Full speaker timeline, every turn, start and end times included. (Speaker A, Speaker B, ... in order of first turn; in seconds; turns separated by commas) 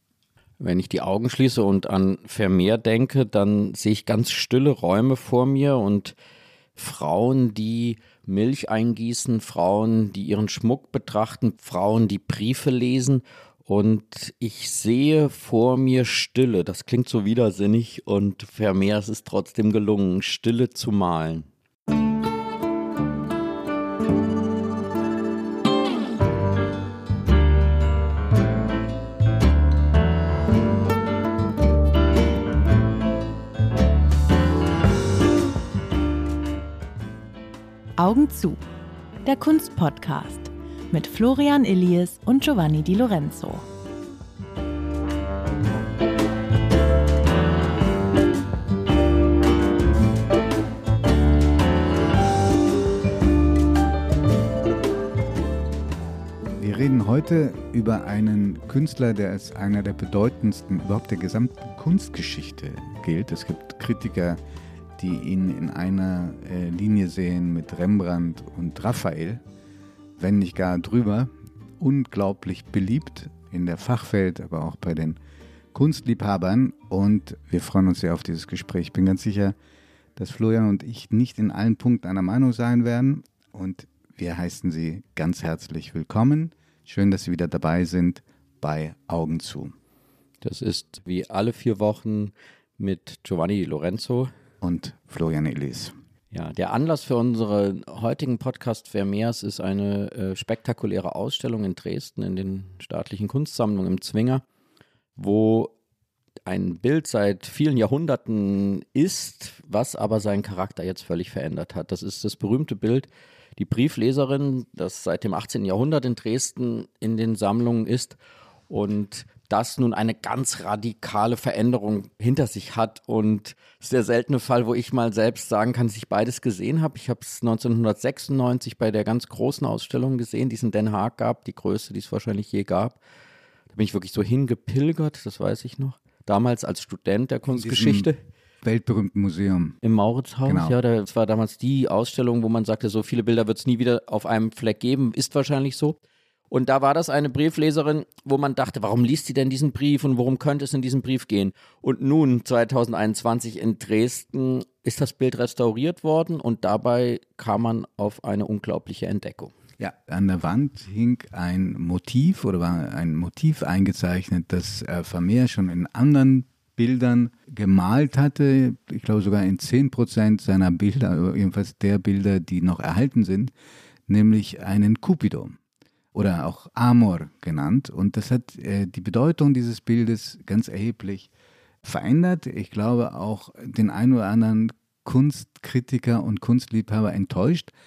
Speaker A: 0.6-6.2, Speaker A: 6.8-21.5, Speaker B: 38.0-38.6, Speaker B: 39.2-43.7, Speaker C: 56.6-64.4, Speaker C: 65.0-69.4, Speaker C: 70.2-75.2, Speaker C: 75.7-79.6, Speaker C: 80.2-89.7, Speaker A: 90.4-94.3, Speaker C: 94.6-95.9, Speaker A: 96.3-104.4, Speaker A: 105.2-105.7, Speaker A: 106.5-118.2, Speaker A: 118.7-133.0, Speaker A: 133.7-138.2, Speaker C: 137.5-138.1, Speaker C: 138.6-139.8, Speaker A: 139.8-146.0, Speaker C: 140.4-140.8, Speaker A: 146.5-159.5, Speaker C: 159.8-173.5, Speaker C: 174.1-175.6, Speaker C: 176.1-181.3, Speaker C: 181.8-187.7